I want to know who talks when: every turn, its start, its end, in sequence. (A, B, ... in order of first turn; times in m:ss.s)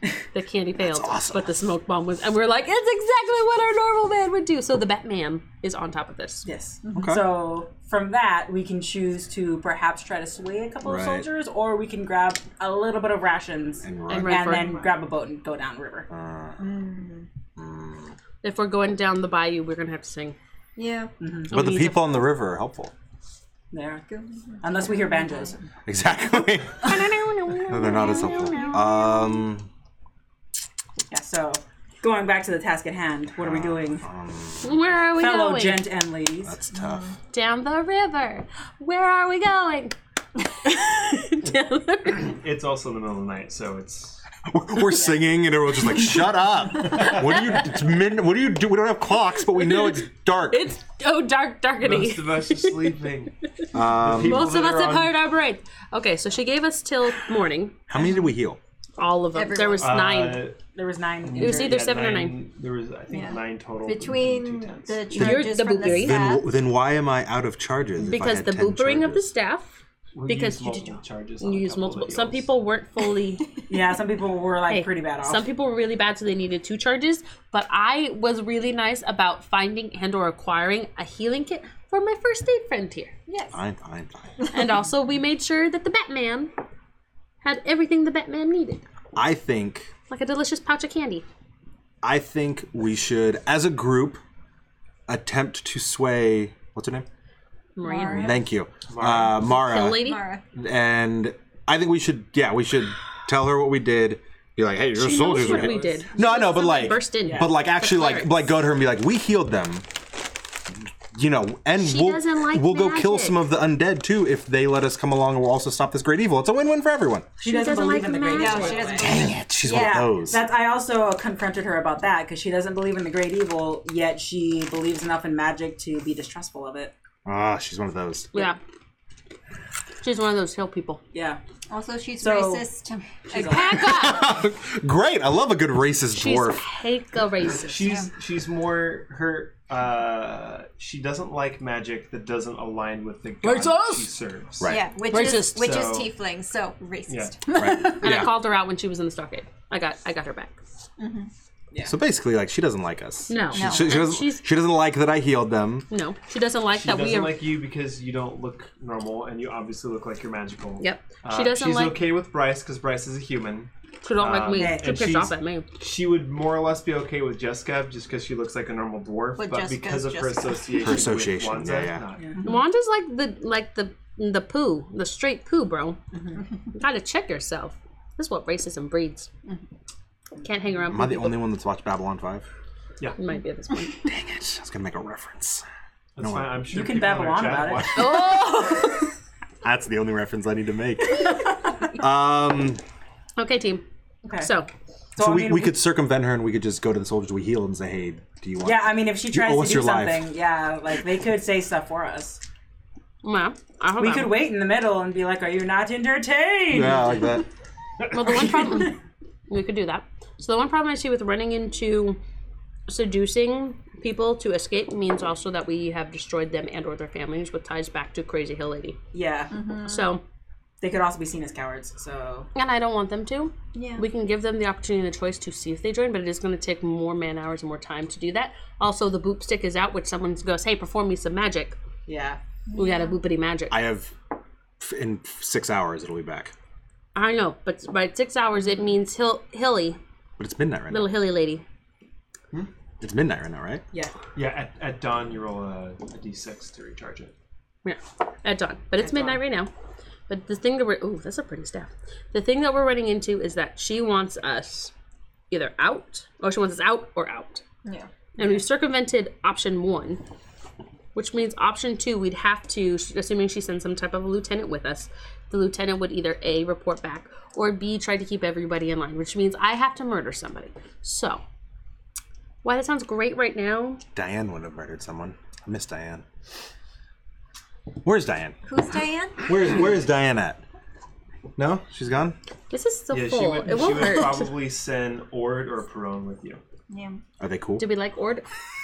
0:00.3-0:06.5 A
0:00.8-0:01.5 B
0:06.4-0:16.1 C
0:06.8-0:07.1 D
0:07.0-0:07.2 B
0:10.8-0:11.3 B
0:13.8-0:14.7 B
0:14.1-0:14.7 A
0:16.1-0:16.7 B
0:16.6-0:17.3 D
0:17.6-0:18.2 B
0:18.4-0:20.4 A
0:20.8-0:21.1 D
0:21.2-0:21.5 C
0:21.5-0:22.9 B
0:21.5-0:22.1 A
0:23.7-0:24.0 C
0:24.1-0:25.5 D
0:24.6-0:25.7 C
0:25.9-0:27.1 B
0:26.8-0:29.0 A
0:27.7-0:29.7 B
0:27.9-0:29.4 D
0:31.1-0:34.0 C
0:33.3-0:34.8 B
0:34.6-0:35.8 A
0:35.2-0:36.6 C
0:36.4-0:37.1 B
0:36.8-0:37.1 D
0:37.3-0:40.0 A
0:40.6-0:42.3 A
0:42.2-0:44.2 E
0:44.4-0:50.7 B
0:49.5-0:52.9 A
0:51.8-0:55.2 E
0:53.7-0:54.5 B
0:54.1-0:57.8 A
0:57.9-0:58.6 B
0:59.0-1:00.5 A
0:59.3-1:00.0 D
0:59.8-1:00.6 E
1:00.7-1:01.8 C
1:01.2-1:05.0 E
1:01.4-1:02.4 A
1:03.1-1:06.5 D
1:05.1-1:06.3 A
1:05.3-1:09.3 B
1:08.0-1:13.5 A
1:10.1-1:12.5 E
1:13.7-1:15.4 C
1:14.7-1:23.1 A
1:23.3-1:23.6 D
1:23.5-1:24.4 B
1:24.5-1:26.5 A
1:27.4-1:28.8 A
1:29.2-1:29.9 B
1:30.1-1:31.2 A
1:32.0-1:34.2 B
1:35.1-1:37.1 B
1:37.8-1:38.4 A
1:37.8-1:38.4 D
1:38.2-1:49.9 B
1:38.9-1:39.4 E
1:39.3-1:40.3 A
1:39.8-1:40.4 D
1:45.0-1:48.5 A
1:45.3-1:46.0 E
1:47.2-1:47.5 C
1:51.1-1:57.3 B
1:51.8-1:53.4 A
1:57.4-2:06.9 C
1:57.4-1:59.0 A
1:58.3-2:00.1 D
1:59.0-2:00.4 B
2:07.2-2:08.5 B
2:10.0-2:11.0 A
2:11.1-2:11.4 C
2:11.7-2:13.8 D
2:12.2-2:12.7 C
2:13.3-2:13.8 C
2:13.3-2:14.4 A
2:13.8-2:16.6 B
2:16.1-2:17.9 A
2:17.6-2:26.1 E
2:17.8-2:18.1 D
2:23.4-2:24.1 A
2:24.7-2:28.2 D
2:25.1-2:25.9 A
2:27.1-2:27.4 E
2:27.5-2:28.4 B
2:28.0-2:30.6 A
2:31.0-2:31.3 D
2:31.8-2:35.9 B
2:33.3-2:34.4 A
2:33.5-2:34.0 D
2:35.9-2:37.4 A
2:36.7-2:52.3 E
2:40.8-2:42.0 A
2:44.0-2:45.7 A
2:44.5-2:45.0 C
2:49.4-2:50.9 D
2:50.8-2:52.0 B
2:52.4-2:56.0 A
2:56.1-2:56.4 C
2:56.7-2:59.3 A
3:00.4-3:01.4 A
3:00.9-3:02.5 B
3:03.2-3:04.0 A
3:04.0-3:05.6 B
3:06.2-3:08.4 E
3:06.2-3:06.6 B
3:06.7-3:08.4 C
3:08.0-3:09.1 A
3:09.6-3:11.4 B
3:11.9-3:12.8 B
3:13.4-3:13.8 A
3:14.2-3:14.5 C
3:14.4-3:14.7 A
3:15.2-3:15.7 C
3:15.2-3:20.3 B
3:18.6-3:22.4 C
3:23.2-3:24.4 A
3:24.0-3:27.4 C
3:26.7-3:27.5 B
3:28.1-3:29.0 A
3:28.3-3:28.9 C
3:29.5-3:32.2 A
3:32.9-3:39.0 A
3:39.1-3:39.5 C
3:39.5-3:40.1 D
3:39.8-3:40.2 A
3:40.8-3:42.5 C
3:42.5-3:51.8 A
3:43.7-3:44.0 D
3:52.1-3:52.4 C
3:52.7-3:53.2 D
3:52.8-3:53.8 A
3:53.7-3:54.1 B
3:54.8-3:56.5 B
3:57.2-4:00.0 A
4:00.4-4:01.1 B
4:00.9-4:01.6 A
4:03.0-4:03.8 B
4:04.4-4:07.3 E
4:07.8-4:09.7 A
4:09.0-4:09.4 C
4:10.3-4:14.9 A
4:15.5-4:17.6 A
4:18.4-4:20.2 A
4:21.2-4:31.4 A
4:32.6-4:34.0 A
4:34.2-4:36.2 B
4:38.0-4:38.6 B
4:38.7-4:39.8 D
4:39.4-4:40.6 B
4:41.6-4:42.4 B
4:42.7-4:44.5 A
4:43.1-4:46.6 E
4:46.9-4:47.2 D
4:47.4-4:47.9 B
4:47.8-4:48.4 A